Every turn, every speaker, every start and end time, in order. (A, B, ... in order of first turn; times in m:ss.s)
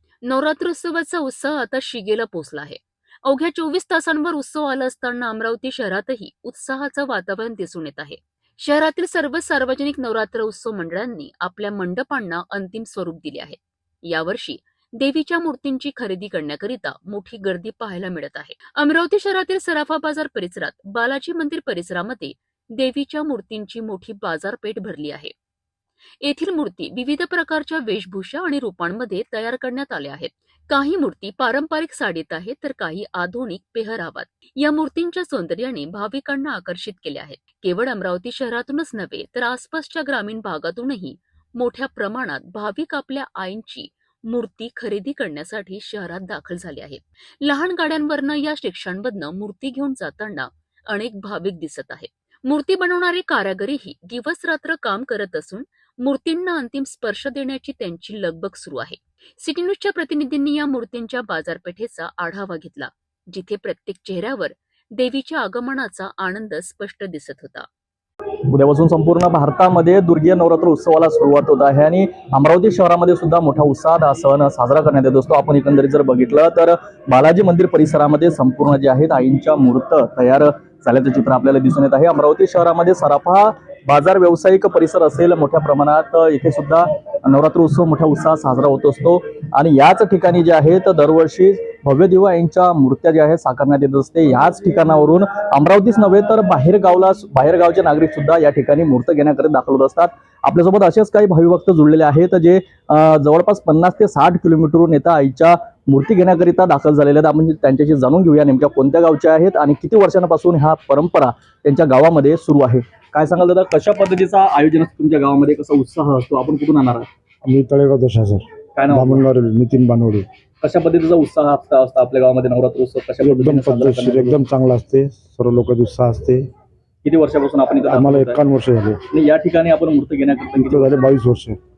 0:00.2-0:25.3 A
0:26.2-1:07.7 A
1:08.4-1:57.1 B
1:57.4-2:00.2 C
1:58.8-1:59.2 B
2:00.6-2:04.4 B
2:03.2-2:06.4 C
2:07.0-2:08.4 B
2:07.9-2:09.0 C
2:09.1-2:11.1 B
2:10.6-2:11.6 C